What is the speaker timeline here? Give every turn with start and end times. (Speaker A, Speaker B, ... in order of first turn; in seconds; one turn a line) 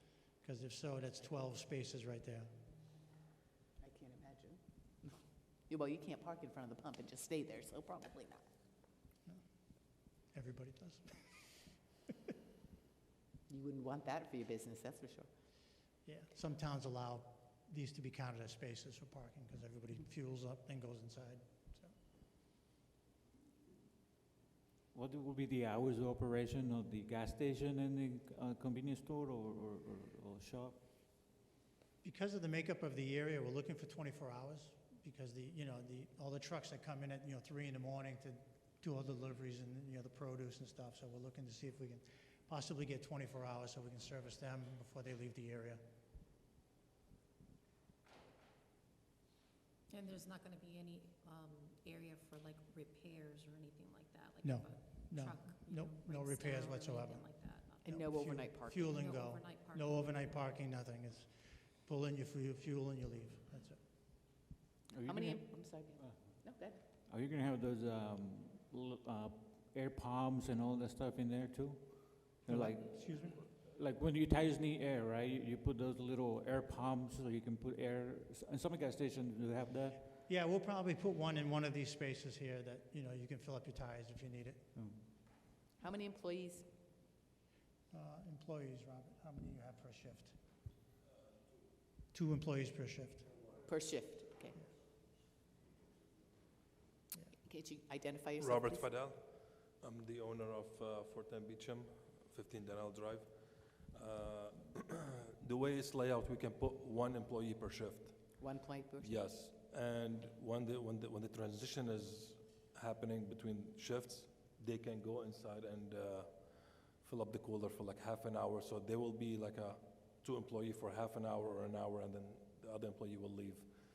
Speaker A: 0.4-2.5
Speaker B: 3.8-5.2
Speaker B: 5.7-8.5
Speaker A: 10.3-11.5
Speaker B: 13.5-15.3
Speaker A: 16.1-21.9
Speaker C: 24.9-30.8
Speaker A: 32.0-45.8
Speaker D: 49.9-58.0
Speaker A: 54.4-61.3
Speaker B: 57.9-58.9
Speaker D: 58.8-60.4
Speaker A: 61.9-63.8
Speaker C: 64.9-66.1
Speaker B: 65.1-66.8
Speaker C: 67.1-80.0
Speaker A: 72.5-73.4
Speaker A: 80.3-84.7
Speaker B: 85.8-86.7
Speaker A: 87.9-90.4
Speaker A: 92.1-93.3
Speaker B: 93.7-94.6
Speaker B: 97.4-98.9
Speaker E: 98.4-103.3
Speaker E: 103.9-108.2
Speaker B: 108.4-109.2
Speaker E: 109.0-116.3
Speaker E: 117.0-123.7